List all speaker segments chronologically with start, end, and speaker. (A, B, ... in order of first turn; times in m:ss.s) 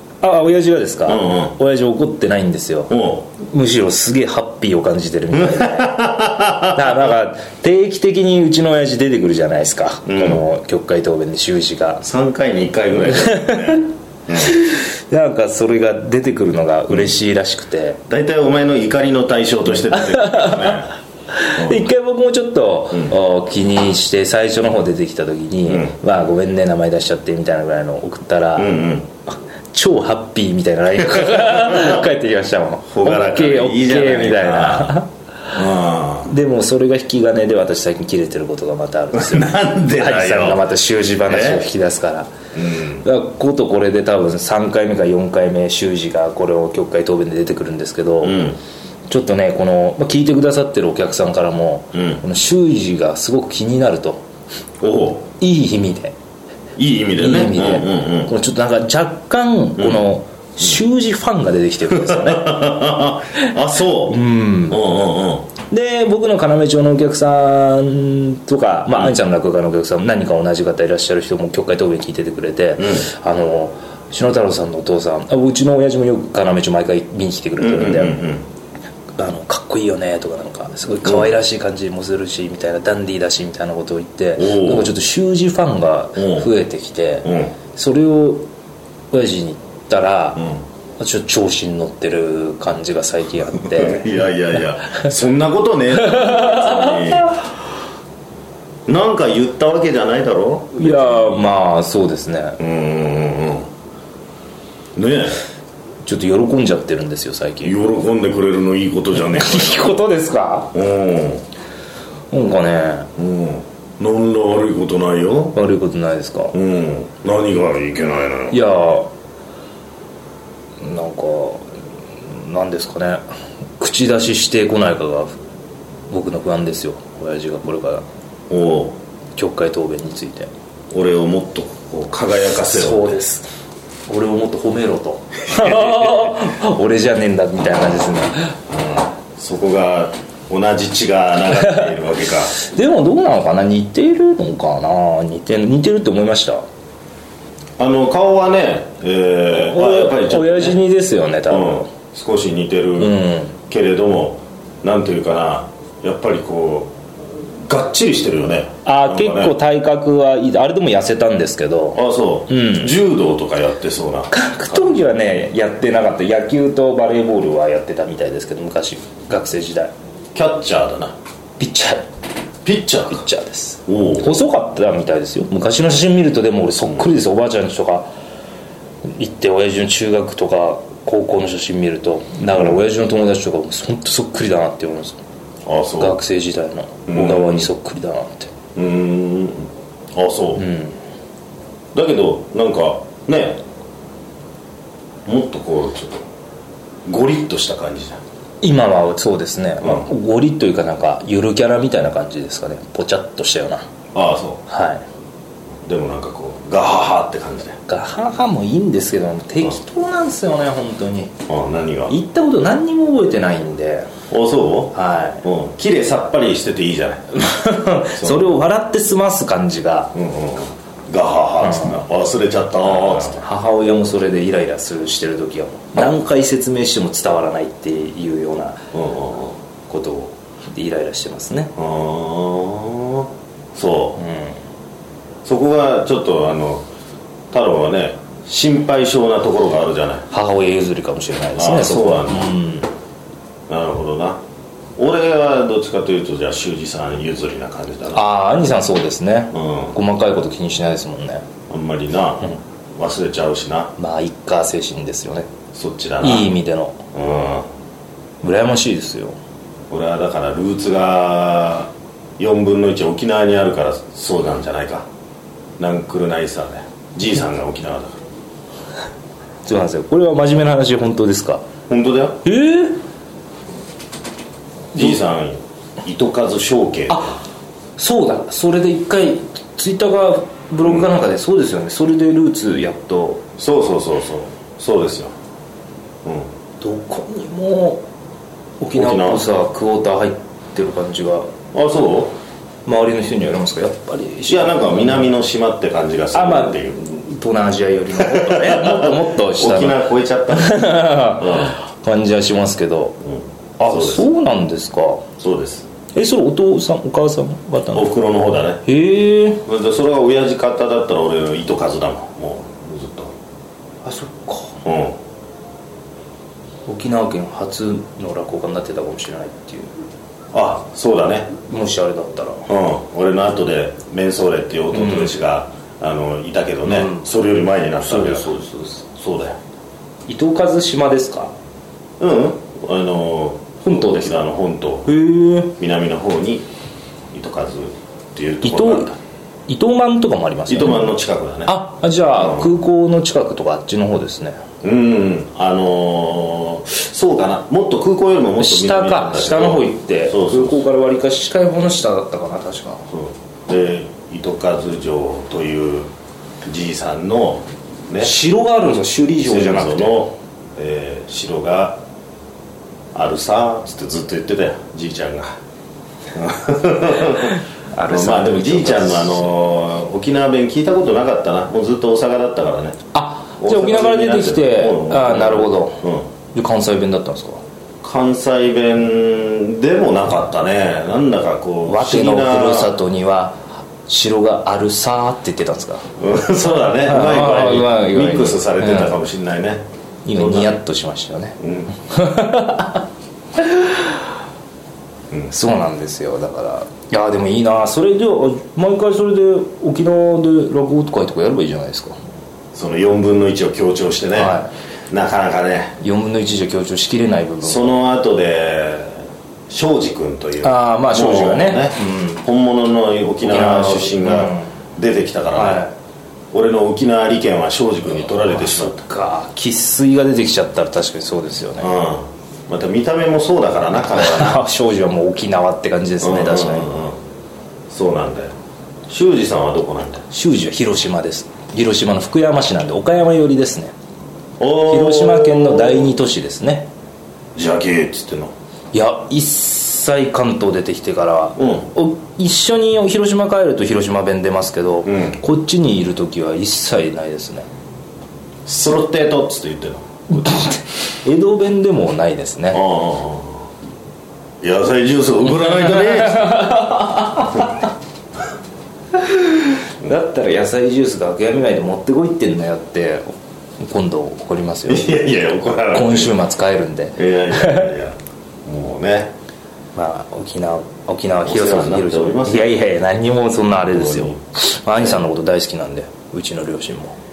0:00.2-0:06.1 A
0:01.1-0:01.5 B
0:02.9-0:03.2 B
0:05.3-0:06.8 B
0:06.7-0:12.0 A
0:10.0-0:10.4 B
0:12.0-0:14.5 B
0:13.1-0:13.8 A
0:14.4-0:18.0 A
0:18.1-0:20.9 B
0:19.9-0:20.8 A
0:21.4-0:28.7 A
0:21.6-0:21.9 B
0:25.7-0:25.9 B
0:28.6-0:29.1 B
0:29.3-0:35.1 A
0:31.5-0:32.0 B
0:32.9-0:35.0 B
0:35.5-0:36.3 B
0:36.2-0:42.3 A
0:39.1-0:40.7 B
0:41.2-0:41.6 B
0:42.5-0:43.0 B
0:43.0-0:48.4 A
0:48.2-0:48.6 B
0:49.1-0:54.2 A
0:51.9-0:52.2 B
0:54.8-0:55.3 B
0:55.4-0:56.1 A
0:56.8-0:58.3 B
0:57.2-1:02.7 A
0:59.8-1:00.1 B
1:01.9-1:05.5 B
1:04.1-1:04.8 A
1:05.7-1:18.2 A
1:12.8-1:13.1 B
1:17.6-1:18.4 B
1:19.2-1:28.4 A
1:24.4-1:24.9 B
1:26.2-1:26.5 B
1:27.2-1:27.5 B
1:29.1-1:30.5 A
1:31.0-1:34.1 A
1:33.6-1:37.4 B
1:36.0-1:37.3 A
1:38.9-1:41.5 B
1:40.8-1:42.6 A
1:42.6-1:43.7 B
1:45.0-1:45.4 B
1:46.0-1:47.8 A
1:47.6-1:50.0 B
1:49.2-1:50.7 A
1:50.7-1:51.4 B
1:52.3-1:53.1 A
1:53.2-1:55.6 B
1:55.5-1:56.5 A
1:56.5-1:58.6 B
1:58.5-1:59.1 A
2:00.8-2:01.6 A
2:02.3-2:03.2 A
2:03.8-2:05.4 A
2:06.1-2:08.0 A
2:08.5-2:09.0 B
2:09.4-2:10.5 A
2:10.9-2:13.2 B
2:12.7-2:13.5 A
2:14.1-2:18.6 A
2:15.5-2:16.2 B
2:18.7-2:22.5 B
2:21.5-2:21.9 A
2:22.5-2:26.6 A
2:27.8-2:30.8 B
2:29.5-2:31.9 A
2:31.5-2:36.9 B
2:33.0-2:33.5 A
2:37.6-2:39.5 B
2:38.8-2:43.0 A
2:41.9-2:44.9 B
2:44.3-2:49.9 A
2:50.3-2:51.1 B
2:51.6-2:52.0 A
2:52.6-2:53.2 B
2:53.1-2:58.1 A
2:53.9-2:54.3 B
2:59.1-3:05.2 A
3:02.5-3:02.8 B
3:05.6-3:06.2 B
3:06.0-3:08.5 A
3:07.1-3:07.7 B
3:08.8-3:10.6 B
3:10.6-3:11.0 A
3:11.9-3:13.6 B
3:15.2-3:16.2 B
3:17.1-3:18.2 B
3:18.6-3:23.8 A
3:24.1-3:24.6 B
3:24.7-3:25.0 A
3:25.8-3:27.8 B
3:27.9-3:31.3 A
3:31.5-3:32.2 B
3:32.1-3:34.1 A
3:34.3-3:37.2 B
3:34.9-3:35.4 A
3:37.3-3:40.1 A
3:38.2-3:38.5 B
3:40.1-3:43.4 B
3:41.6-3:42.0 A
3:42.8-3:48.8 A
3:48.9-3:49.6 B
3:49.9-3:51.7 A
3:51.8-3:54.2 B
3:54.2-3:54.6 A
3:55.4-3:56.8 B
3:57.5-4:00.2 B
4:00.3-4:02.9 A
4:01.6-4:02.5 B
4:03.7-4:04.4 B
4:05.0-4:08.2 B
4:08.1-4:11.4 A
4:09.5-4:10.0 B
4:11.7-4:13.9 B
4:14.0-4:15.5 A
4:15.7-4:16.5 B
4:16.2-4:17.0 A
4:17.1-4:17.7 B
4:18.4-4:19.4 A
4:19.9-4:25.0 B
4:25.8-4:28.2 B
4:29.6-4:31.6 A
4:31.9-4:32.4 B
4:32.4-4:33.0 A
4:34.9-4:37.4 B
4:37.1-4:37.4 A
4:38.0-4:43.4 A
4:43.6-4:45.3 B
4:46.8-4:48.0 A
4:48.8-4:51.5 A
4:48.9-4:49.4 B
4:51.7-4:52.4 B
4:52.8-4:55.3 A
4:54.5-4:57.0 B
4:56.3-5:03.2 A
4:58.2-5:01.7 B
5:03.2-5:04.2 B
5:03.8-5:05.2 A
5:05.4-5:05.9 B
5:06.1-5:08.1 A
5:07.9-5:08.8 B
5:08.8-5:09.6 A
5:09.6-5:13.3 B
5:14.0-5:14.8 A
5:14.8-5:15.2 B
5:16.9-5:19.9 A
5:20.5-5:21.5 B
5:21.7-5:22.7 A
5:22.7-5:28.6 B
5:24.9-5:25.3 A
5:26.8-5:27.2 A
5:28.0-5:29.0 A
5:29.1-5:29.6 B
5:30.3-5:31.5 A
5:32.2-5:35.1 B
5:33.8-5:34.4 A
5:35.0-5:35.8 A
5:35.7-5:36.6 B
5:37.3-5:39.2 B
5:38.6-5:39.1 A
5:39.7-5:41.1 A
5:40.7-5:41.8 B
5:41.6-5:44.6 A
5:42.3-5:42.7 B
5:44.8-5:50.8 B
5:48.6-5:53.0 A
5:53.1-5:56.1 B
5:56.6-5:58.3 B
5:58.2-6:00.2 A
5:59.4-6:02.0 B
6:03.1-6:05.6 B
6:06.3-6:13.0 B
6:07.5-6:09.5 A
6:13.1-6:17.6 A
6:13.6-6:16.2 B
6:18.0-6:22.9 B
6:21.8-6:26.1 A
6:26.2-6:29.8 B
6:27.0-6:29.1 A
6:30.2-6:33.0 A
6:30.3-6:30.8 B
6:31.6-6:31.9 B
6:33.6-6:34.2 A
6:35.5-6:42.1 A
6:42.7-6:44.6 B
6:44.4-6:44.7 A
6:45.1-6:45.9 B
6:46.0-6:48.0 A
6:47.6-6:55.8 B
6:50.6-6:52.4 A
6:53.4-6:54.7 A
6:55.5-6:55.9 A
6:56.5-6:58.9 B
6:58.6-7:01.9 A
7:01.8-7:04.6 B
7:04.1-7:06.9 A
7:06.2-7:07.2 B
7:07.9-7:08.5 B
7:09.1-7:10.2 B
7:10.3-7:13.9 A
7:14.6-7:16.2 B
7:14.8-7:16.9 A
7:17.5-7:18.5 B
7:18.9-7:27.6 A
7:21.6-7:21.9 B
7:25.0-7:25.4 B
7:28.6-7:30.2 B
7:30.3-7:32.8 A
7:32.7-7:33.6 B
7:34.6-7:36.8 B
7:35.7-7:37.8 A
7:39.2-7:43.3 A
7:43.8-7:45.2 A
7:44.9-7:46.4 B
7:45.9-7:47.9 A
7:47.2-7:49.3 B
7:49.9-7:57.2 A
7:51.4-7:52.7 B
7:53.9-7:54.4 B
7:54.9-7:55.2 B